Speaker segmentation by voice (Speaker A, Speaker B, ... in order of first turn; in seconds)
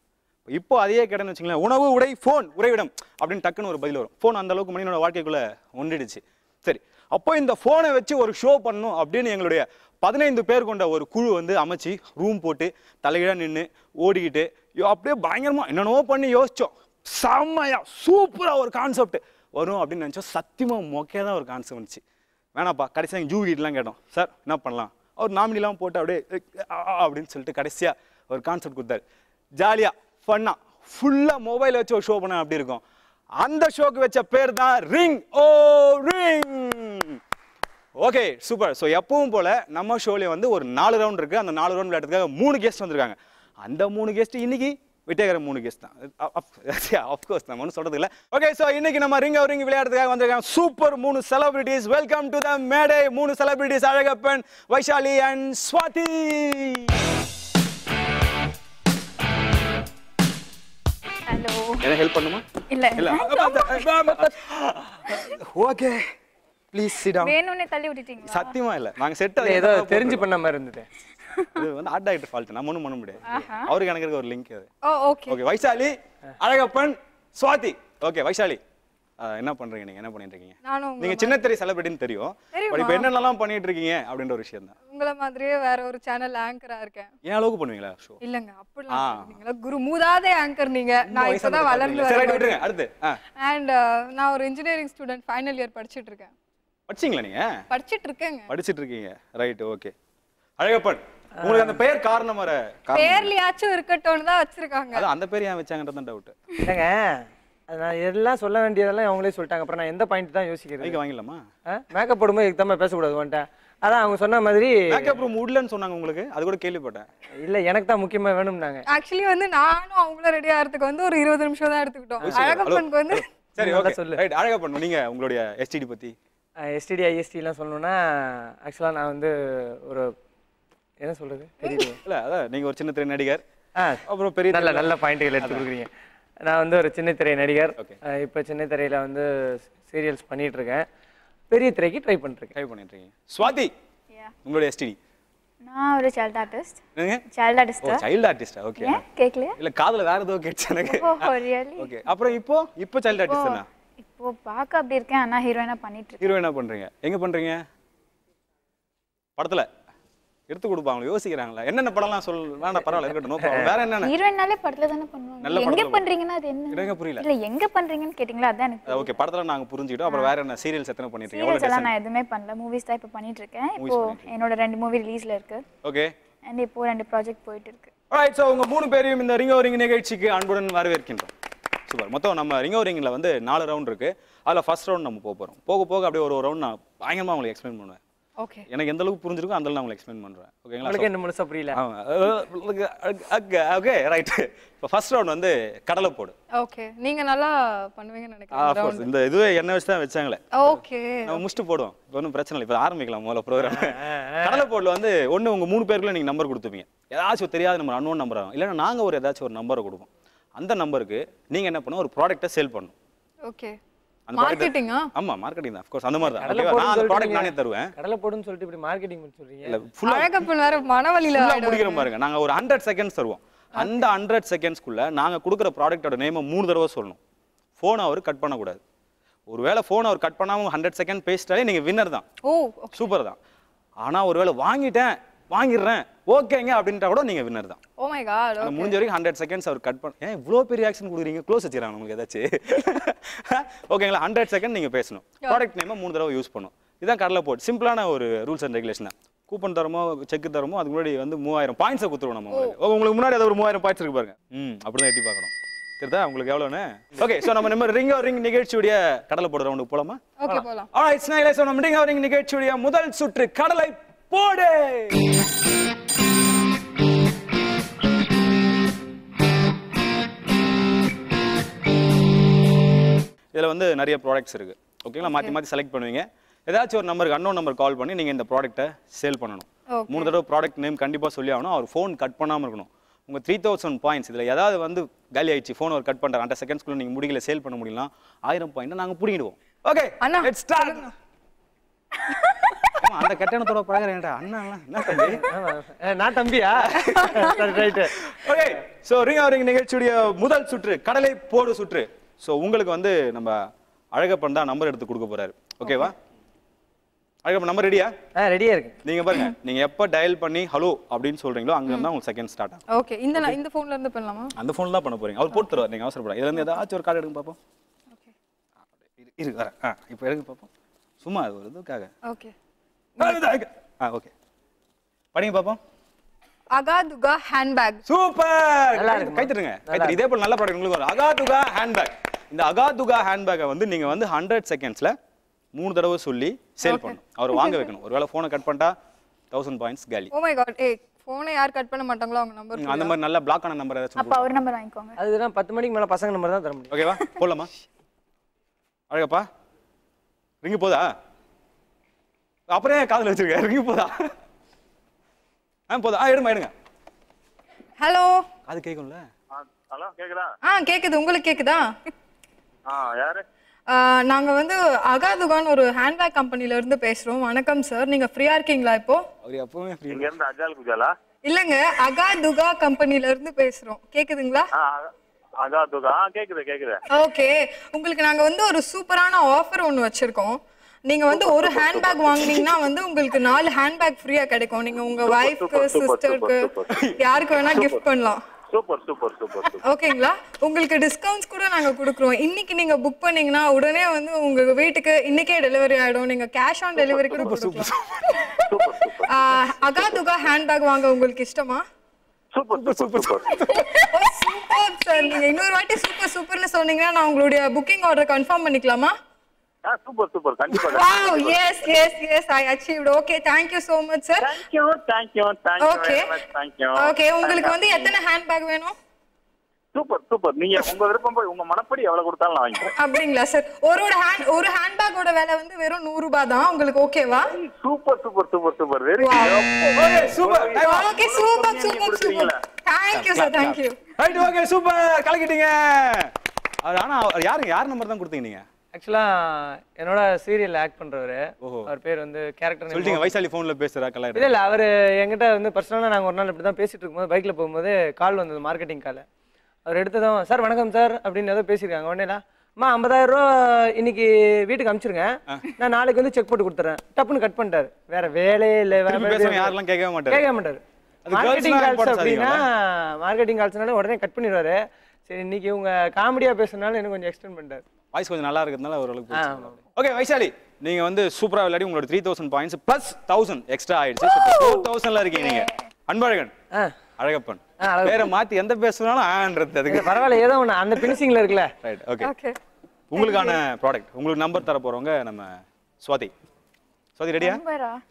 Speaker A: 0.5-22.0, 22.6-29.0, 29.6-32.8, 33.4-37.2, 38.0-57.0, 61.8-62.4, 63.0-66.1, 66.7-67.3, 68.2-70.2, 71.5-74.7, 75.3-78.6, 79.2-84.8, 87.2-88.2, 88.9-89.4, 91.0-93.2, 96.9-97.6, 98.5-99.9, 100.6-103.3, 104.9-106.3, 110.8-111.5, 114.9-117.1, 122.2-126.2, 132.1-133.4, 134.1-135.7, 142.6-143.7, 144.4-145.0, 147.0-147.2, 147.8-149.0, 149.6-153.7, 156.2-157.6, 159.4-159.7, 160.5-164.1, 165.4-166.1, 166.7-167.3, 168.9-171.9, 173.8-174.3, 175.8-176.1, 178.1-181.3, 181.9-188.0, 188.7-191.1, 191.7-196.3, 198.5-212.9, 214.3-217.9, 219.7-220.4, 221.3-227.2, 227.8-228.8, 229.5-232.3, 232.9-233.4, 234.0-237.8, 238.6-260.3, 260.9-265.2, 273.5-291.1, 293.0-295.5, 296.8-297.6, 298.3-303.6, 304.1-306.1, 307.4-308.1, 309.1-313.6, 314.6-317.6, 319.1-320.7, 321.2-322.1, 323.2-324.3, 325.3-325.8, 328.1-335.2, 335.7-338.9, 339.5-340.3, 342.8-344.5, 346.9-347.7, 349.1-349.5, 350.6-351.1, 352.7-354.3, 355.9-356.7, 358.7-359.3, 369.4-370.4, 397.3-398.5, 402.7-403.6, 429.9-431.1, 433.1-438.6, 441.6-441.9, 442.9-444.5, 459.1-460.4, 461.3-462.6, 468.1-476.6, 477.2-480.2, 481.8-482.3, 483.1-486.3, 487.2-487.6
Speaker B: 61.3-61.9, 62.7-63.9, 67.2-68.5, 73.3-73.7, 145.6-146.8, 147.3-148.1, 148.8-149.6, 150.8-152.0, 153.3-156.3, 164.0-169.2, 171.3-175.6, 176.5-177.9, 344.2-345.2, 475.4-475.7, 483.2-483.6, 487.4-488.0
Speaker C: 69.4-70.9, 101.4-101.8, 106.7-111.0, 111.7-115.2, 117.4-118.8, 123.6-124.2, 126.6-130.1, 131.0-132.0, 133.8-135.9, 136.4-140.9, 141.5-142.5, 163.4-163.7, 190.8-191.8, 203.6-204.7, 216.3-219.8, 295.1-298.2, 308.4-309.0, 329.0-330.2, 345.2-346.9, 438.9-443.3, 444.4-449.2, 449.9-459.7, 460.3-467.8, 469.3-469.8, 477.8-478.3, 479.9-481.7
Speaker D: 74.8-75.4, 80.7-81.4, 82.5-83.1, 84.9-87.1, 88.2-92.6, 93.4-96.3, 97.7-98.5, 102.9-105.1, 118.9-123.2, 196.6-199.1, 200.6-201.4, 213.5-213.8, 214.4-215.1, 220.0-222.1, 232.4-233.0, 238.0-239.0, 260.4-260.9, 275.2-275.5, 279.9-280.3, 290.2-291.1, 297.2-297.6, 305.9-306.1, 312.9-314.5, 322.3-322.5, 326.7-328.0, 336.8-337.2, 340.3-343.1, 358.0-358.5, 360.6-361.9, 363.9-369.2, 371.4-374.7, 377.1-388.4, 389.8-397.9, 399.3-401.8, 403.7-409.1, 410.7-414.5, 415.8-416.4, 416.9-418.9, 422.9-427.5, 429.2-430.2, 430.8-434.0, 482.2-482.6
Speaker E: 359.5-360.5, 362.9-363.4, 370.1-371.1, 374.8-375.1, 375.6-377.0, 381.3-382.3, 385.2-386.9, 387.6-388.0, 388.7-389.8, 398.7-399.3, 402.5-403.5, 409.8-411.6, 414.4-418.1, 419.9-422.9, 427.5-432.6